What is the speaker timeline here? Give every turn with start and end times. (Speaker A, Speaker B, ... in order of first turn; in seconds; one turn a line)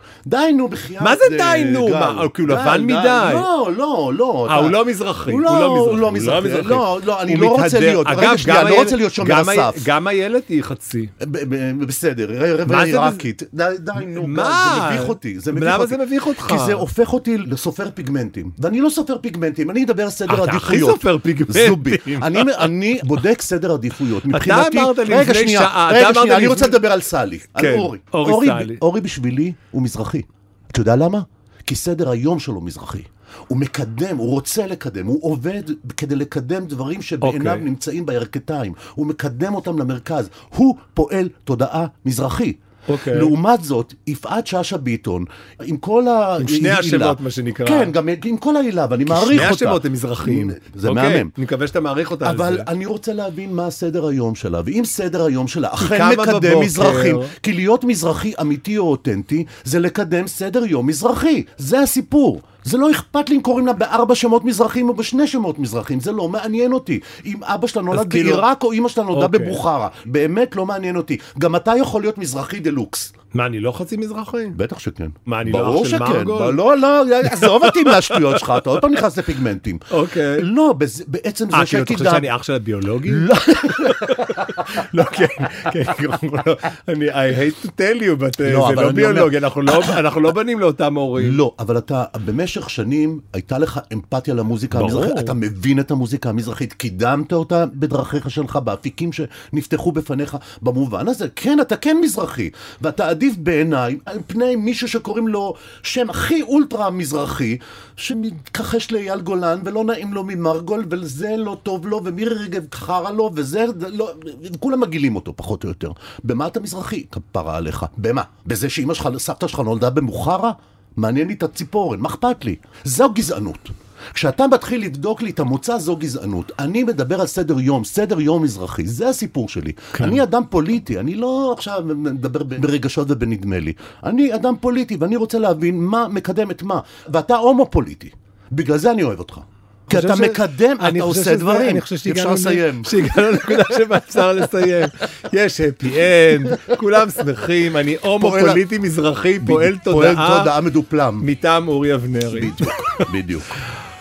Speaker A: 0.3-9.9
Speaker B: 1.0-3.5
Speaker B: 4.5-11.1
Speaker A: 11.2-51.3
Speaker B: 12.7-13.2
Speaker B: 14.0-16.9
Speaker B: 20.3-22.7
Speaker B: 24.3-26.8
Speaker B: 27.6-28.8
Speaker B: 37.2-37.7
Speaker B: 42.9-43.3
Speaker B: 46.4-47.9
Speaker B: 49.1-52.7
Speaker A: 52.2-73.1
Speaker B: 55.8-57.3
Speaker B: 67.9-68.5
Speaker B: 69.1-69.6
Speaker B: 73.3-74.6
Speaker A: 74.5-79.8
Speaker B: 75.3-76.6
Speaker B: 77.2-78.6
Speaker B: 79.9-80.5
Speaker A: 80.3-82.3
Speaker B: 81.5-91.4
Speaker A: 83.1-84.9
Speaker A: 88.4-90.0
Speaker A: 91.2-143.8
Speaker B: 94.7-95.3
Speaker B: 129.9-130.2
Speaker B: 139.9-150.5
Speaker A: 146.3-146.8
Speaker A: 148.2-148.6
Speaker A: 149.4-151.3
Speaker B: 151.2-153.1
Speaker A: 152.3-153.5